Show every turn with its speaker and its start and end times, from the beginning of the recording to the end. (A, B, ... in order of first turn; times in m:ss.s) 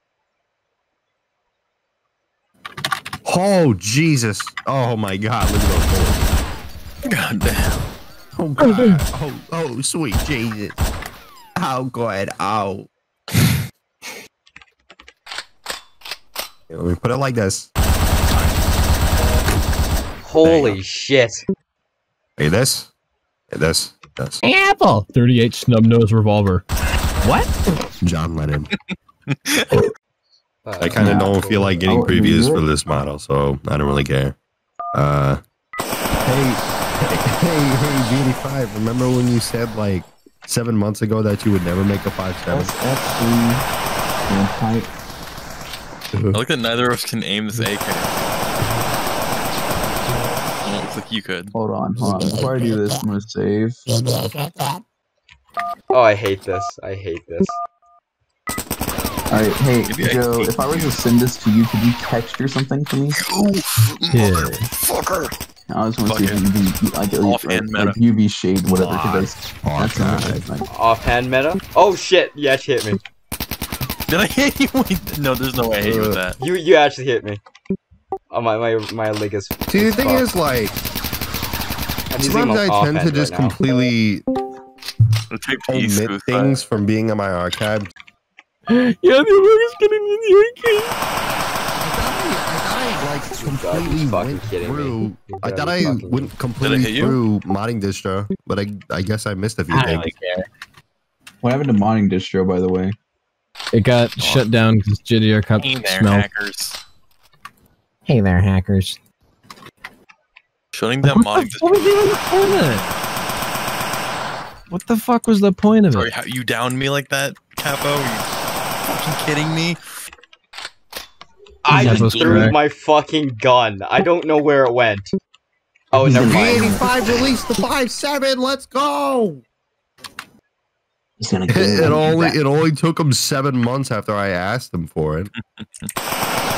0:03.2-0:06.3 A
0:07.1-0:07.8 B
0:08.4-0:10.8 A
0:08.6-0:09.0 C
0:11.6-0:12.9 A
0:16.7-0:17.7 A
0:20.2-0:21.4 D
0:20.4-0:20.8 B
0:22.4-0:22.9 A
0:23.5-0:24.4 A
0:24.4-0:26.6 C
0:27.2-0:27.5 C
0:28.0-0:28.7 A
0:28.9-0:29.8 B
0:30.6-0:31.8 D
0:30.8-0:34.4 A
0:31.0-0:32.7 E
0:34.9-0:35.4 A
0:36.2-0:42.7 A
0:42.5-0:43.7 E
0:44.3-0:44.9 E
0:46.1-0:46.4 A
0:46.3-0:48.2 B
0:50.6-0:51.5 B
0:51.5-0:53.9 E
0:55.9-0:57.6 D
0:59.3-1:03.2 E
0:59.9-1:01.0 B
1:03.2-1:05.3 B
1:04.1-1:04.7 C
1:05.7-1:10.7 E
1:06.1-1:06.4 B
1:07.2-1:08.0 B
1:08.8-1:09.3 B
1:09.6-1:10.4 A
1:10.7-1:13.0 D
1:14.1-1:16.4 B
1:15.8-1:16.2 A
1:16.4-1:17.4 D
1:18.3-1:20.3 D
1:19.7-1:20.8 A
1:22.1-1:23.6 D
1:22.2-1:24.2 A
1:25.3-1:26.5 B
1:25.7-1:27.9 A
1:28.7-1:31.0 C
1:31.8-1:40.1 A
1:33.4-1:36.4 D
1:36.6-1:37.2 B
1:39.7-1:40.3 C
1:41.4-1:43.0 E
1:43.7-1:46.3 C
1:45.6-1:46.8 B
1:48.1-1:49.0 C
1:50.7-1:52.7 B
1:51.1-1:52.8 C
1:54.7-1:56.1 C
1:55.9-1:58.3 B
1:58.8-1:59.8 B
2:01.6-2:05.1 D
2:01.7-2:02.6 C
2:05.9-2:07.3 D
2:06.0-2:06.2 E
2:06.2-2:09.4 A
2:11.2-2:12.3 E
2:11.5-2:15.3 A
2:15.6-2:15.9 B